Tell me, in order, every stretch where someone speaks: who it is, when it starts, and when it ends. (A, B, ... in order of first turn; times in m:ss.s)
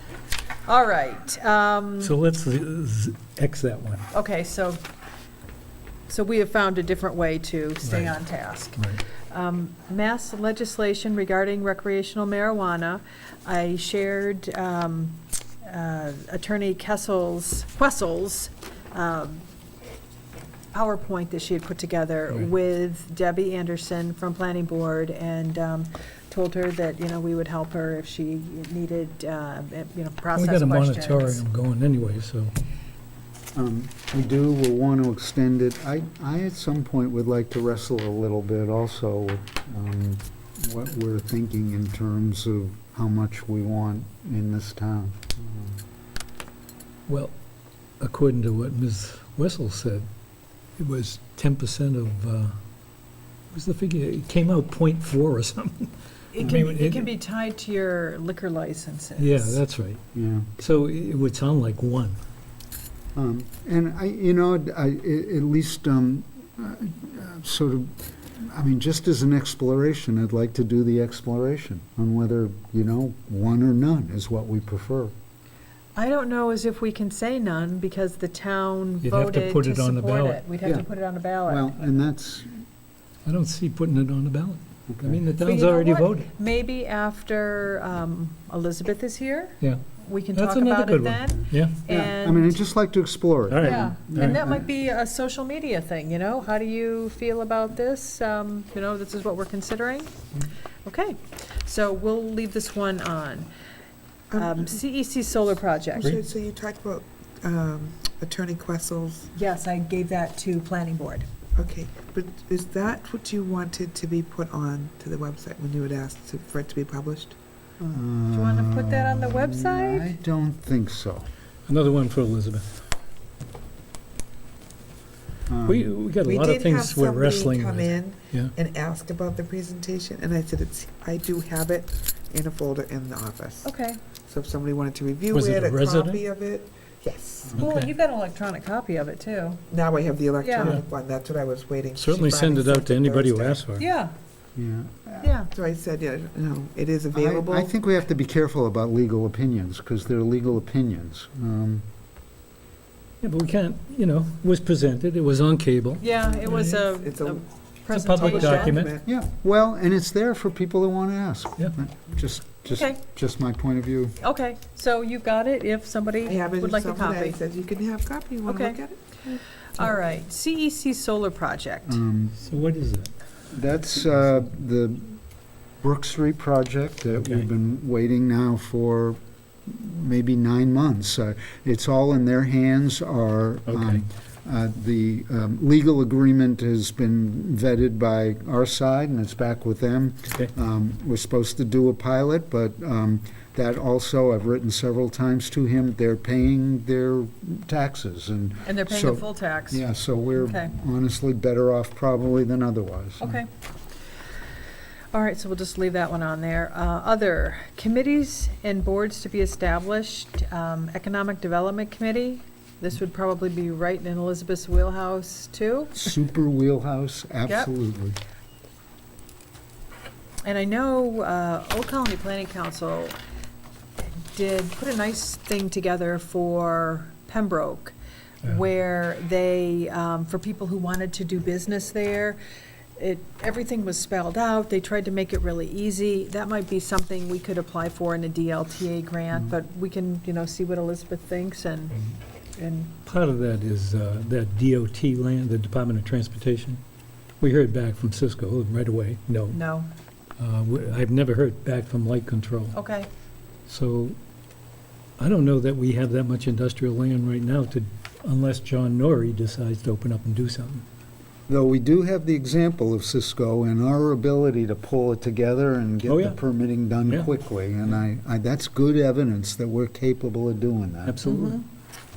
0:00.6-0:02.1 A
0:02.0-0:04.1 B
0:04.1-0:04.8 A
0:06.1-0:19.4 A
0:07.8-0:08.1 B
0:08.8-0:09.0 B
0:20.7-0:31.4 A
0:30.3-0:32.5 B
0:33.5-0:45.8 C
0:47.1-0:47.3 B
0:48.0-0:50.1 B
0:50.8-0:52.6 B
0:53.5-0:57.1 B
0:56.3-0:59.6 A
0:59.2-1:00.0 B
1:00.1-1:00.5 C
1:00.6-1:02.2 B
1:03.1-1:15.1 C
1:16.0-1:21.8 A
1:19.0-1:20.4 B
1:21.5-1:22.6 C
1:23.2-1:26.3 B
1:24.9-1:25.2 C
1:25.4-1:32.6 A
1:30.3-1:31.8 B
1:31.9-1:34.6 C
1:33.5-1:34.4 B
1:33.6-1:40.2 A
1:40.8-1:43.5 A
1:44.3-1:44.8 D
1:44.3-1:46.2 A
1:46.0-1:49.3 D
1:49.3-1:51.3 A
1:51.6-1:57.4 D
1:57.8-2:01.3 C
1:58.3-2:00.1 A
2:01.7-2:02.7 B
2:05.5-2:05.9 C
2:05.7-2:08.5 B
2:06.2-2:13.7 D
2:13.6-2:14.0 A
2:14.2-2:17.6 D
2:15.3-2:16.2 B
2:17.6-2:19.6 A
2:17.6-2:17.9 B
2:19.7-2:23.6 D
2:20.4-2:20.8 A
2:21.9-2:23.8 B
2:23.8-2:24.1 A
2:24.6-2:25.3 C
2:25.2-2:25.5 A
2:25.5-2:27.7 D
2:27.1-2:31.8 C
2:33.2-2:36.6 B
2:36.0-2:38.8 A
2:36.1-2:37.4 D
2:37.9-2:39.0 B
2:38.2-2:39.0 D
2:39.0-2:44.2 C
2:42.7-2:43.0 A
2:44.2-2:47.4 A
2:46.2-2:49.4 D
2:48.4-2:48.8 A
2:49.7-2:52.0 A
2:51.9-2:52.4 C
2:52.4-2:53.1 B
2:53.5-2:55.2 C
2:55.8-3:23.4 C
2:57.2-2:57.4 B
3:03.6-3:04.0 B
3:18.6-3:19.8 A
3:20.3-3:20.7 A
3:23.2-3:23.5 A
3:25.1-3:36.1 A
3:36.0-3:38.2 C
3:40.4-3:43.2 A
3:44.3-3:52.4 A
3:53.0-4:02.9 A
4:03.0-4:06.8 B
4:07.4-4:09.6 B
4:09.5-4:09.9 A
4:10.4-4:12.7 B
4:12.7-4:13.1 A
4:13.7-4:14.2 B
4:15.2-4:20.8 B
4:21.5-4:31.2 C
4:26.0-4:27.3 B
4:31.0-4:31.6 B
4:31.2-4:31.6 A